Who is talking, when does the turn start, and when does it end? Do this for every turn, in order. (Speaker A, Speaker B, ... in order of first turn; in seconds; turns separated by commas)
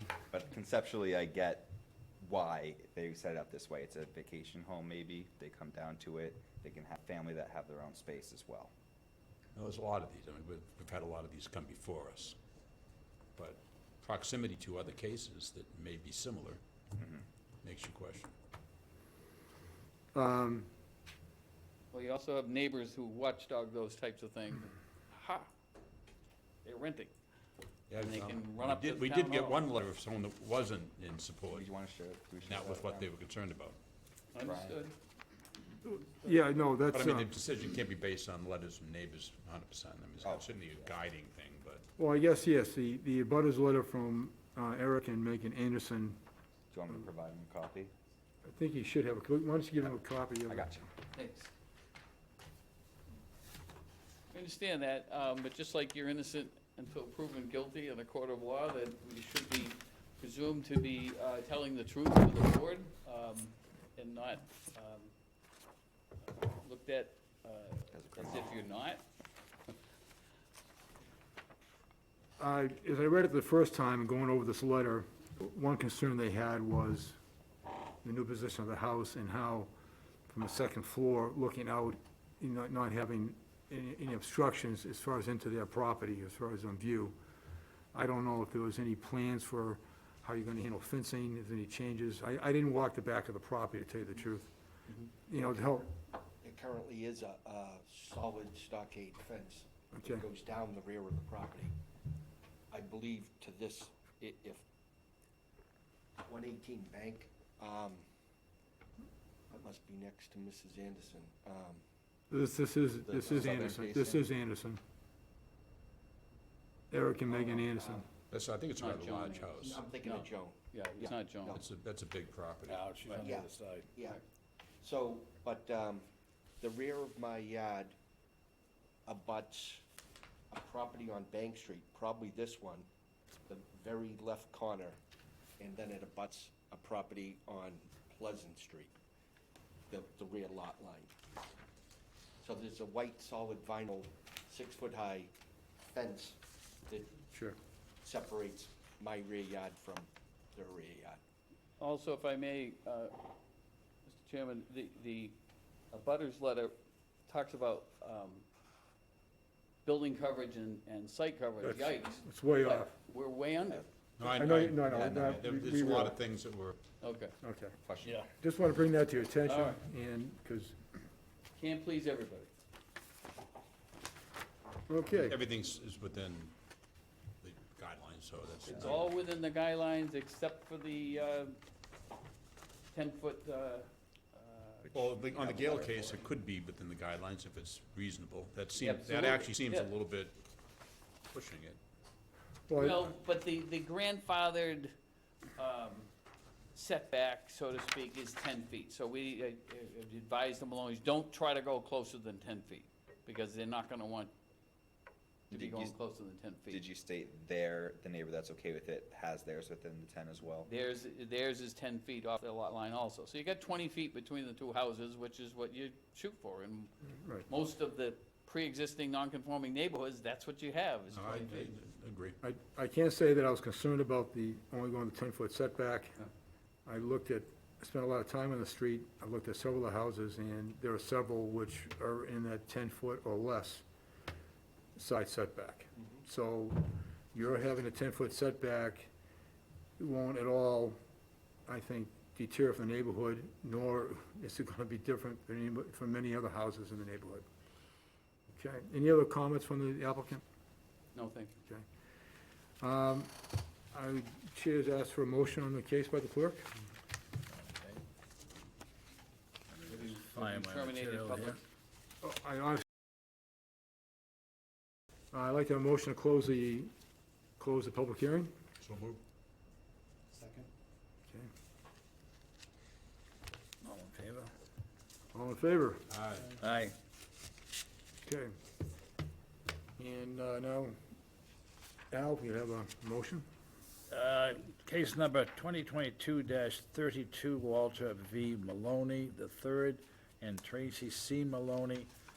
Speaker A: 0.3-8.7, Speaker B: 9.5-12.4, Speaker B: 13.3-16.6, Speaker A: 16.9-17.2, Speaker B: 17.6-18.3, Speaker C: 20.1-20.7, Speaker D: 21.9-25.5, Speaker D: 26.6-27.1, Speaker B: 27.9-31.7, Speaker D: 27.9-29.8, Speaker A: 31.5-33.1, Speaker B: 32.5-33.8, Speaker D: 34.3-35.0, Speaker A: 34.5-34.8, Speaker C: 35.9-37.3, Speaker B: 36.9-41.8, Speaker A: 40.2-40.9, Speaker C: 42.0-46.2, Speaker A: 46.7-47.9, Speaker C: 48.5-50.8, Speaker A: 50.5-50.9, Speaker D: 51.1-51.5, Speaker D: 54.3-65.1, Speaker D: 66.3-69.0, Speaker A: 67.9-68.5, Speaker C: 72.4-77.2, Speaker C: 78.0-79.7, Speaker C: 80.3-87.2, Speaker C: 87.9-94.5, Speaker C: 95.3-95.9, Speaker E: 96.4-101.7, Speaker C: 99.9-100.3, Speaker E: 102.7-104.6, Speaker E: 106.2-108.0, Speaker E: 109.5-111.8, Speaker C: 112.3-114.8, Speaker E: 113.0-114.3, Speaker C: 116.9-118.1, Speaker E: 117.3-118.1, Speaker B: 118.3-119.8, Speaker D: 118.8-121.6, Speaker E: 119.6-121.6, Speaker B: 121.5-122.9, Speaker F: 122.7-123.9, Speaker E: 123.2-124.2, Speaker E: 124.8-126.1, Speaker E: 126.6-127.9, Speaker E: 129.1-129.8, Speaker E: 130.5-132.9, Speaker E: 133.5-135.0, Speaker E: 135.6-138.9, Speaker E: 139.9-141.1, Speaker E: 142.4-145.3, Speaker E: 145.9-146.4, Speaker C: 147.3-147.6, Speaker E: 148.0-151.2, Speaker D: 151.8-153.2, Speaker D: 154.1-155.4, Speaker D: 155.9-156.7, Speaker D: 157.3-158.4, Speaker D: 159.8-163.9, Speaker C: 161.6-162.9, Speaker B: 164.2-166.8, Speaker C: 164.2-166.2, Speaker A: 164.9-165.5, Speaker D: 167.0-167.3, Speaker C: 167.4-167.8, Speaker A: 167.8-168.2, Speaker C: 168.4-170.8, Speaker D: 169.5-169.8, Speaker D: 171.6-172.5, Speaker C: 174.9-175.4, Speaker B: 175.2-176.5, Speaker B: 177.4-179.1, Speaker D: 178.7-181.6, Speaker D: 182.9-186.2, Speaker B: 184.9-190.3, Speaker D: 188.8-189.9, Speaker B: 191.3-191.8, Speaker C: 192.7-193.1, Speaker D: 192.8-194.9, Speaker D: 195.6-196.1, Speaker D: 196.7-204.3, Speaker D: 205.5-206.8, Speaker A: 205.5-205.9, Speaker A: 206.7-210.7, Speaker D: 210.6-216.9, Speaker C: 217.2-217.5, Speaker D: 217.5-221.7, Speaker B: 221.1-222.4, Speaker C: 222.4-226.2, Speaker C: 226.9-233.8, Speaker C: 235.0-239.1, Speaker C: 240.0-241.0, Speaker C: 241.7-247.4, Speaker C: 248.6-250.4, Speaker D: 251.1-251.6, Speaker C: 252.8-253.3, Speaker C: 253.9-256.7, Speaker F: 259.7-261.6, Speaker D: 259.9-261.6, Speaker C: 262.2-262.8, Speaker C: 265.3-266.9, Speaker C: 267.6-268.5, Speaker B: 268.8-269.2, Speaker F: 273.8-274.5, Speaker C: 275.3-276.0, Speaker B: 276.1-276.6, Speaker F: 276.6-276.9, Speaker C: 278.2-278.5, Speaker C: 280.0-281.0, Speaker C: 282.1-283.4, Speaker F: 284.1-292.1